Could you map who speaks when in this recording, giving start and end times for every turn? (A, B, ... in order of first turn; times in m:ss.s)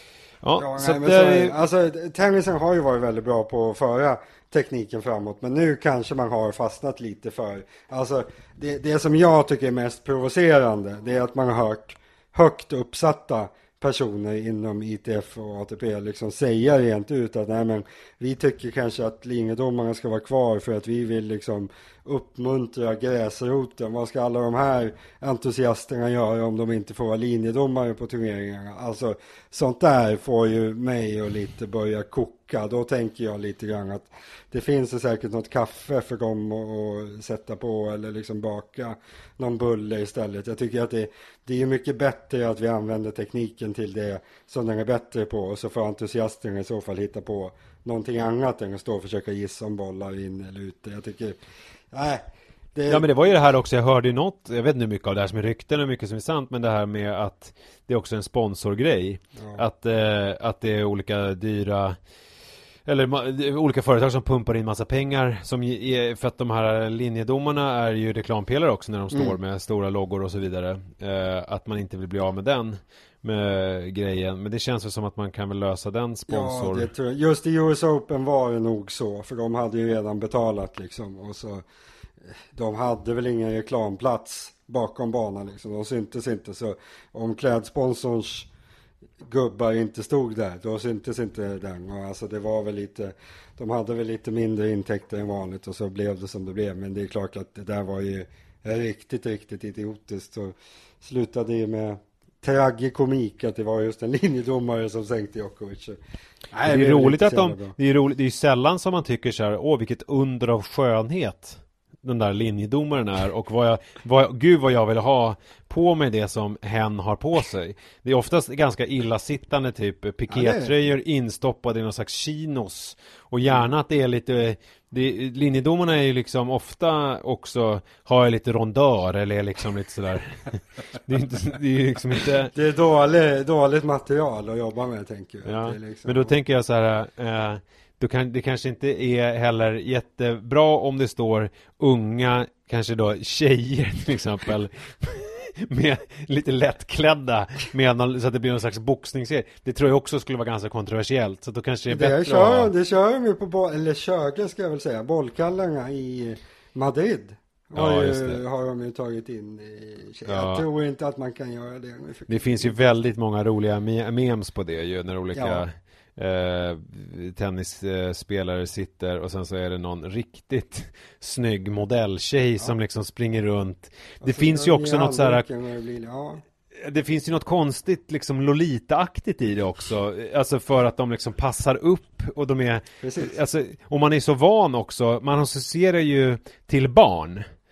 0:00.4-0:01.6 A
0:00.6-0:51.4 B
0:51.9-0:53.1 B
0:52.9-1:02.0 A
0:59.4-0:59.6 B
1:02.9-1:16.9 A
1:16.3-1:21.6 B
1:22.3-1:28.5 B
1:29.2-1:46.0 B
1:46.5-1:47.7 B
1:46.6-2:12.5 A
2:00.3-2:00.7 B
2:12.5-2:16.3 B
2:15.4-2:32.7 A
2:31.9-2:42.8 B
2:37.8-2:38.4 A
2:40.3-2:40.6 A
2:42.3-2:55.4 A
2:45.3-2:45.6 B
2:54.2-2:56.4 B
2:56.8-3:07.5 A
3:03.0-3:03.4 B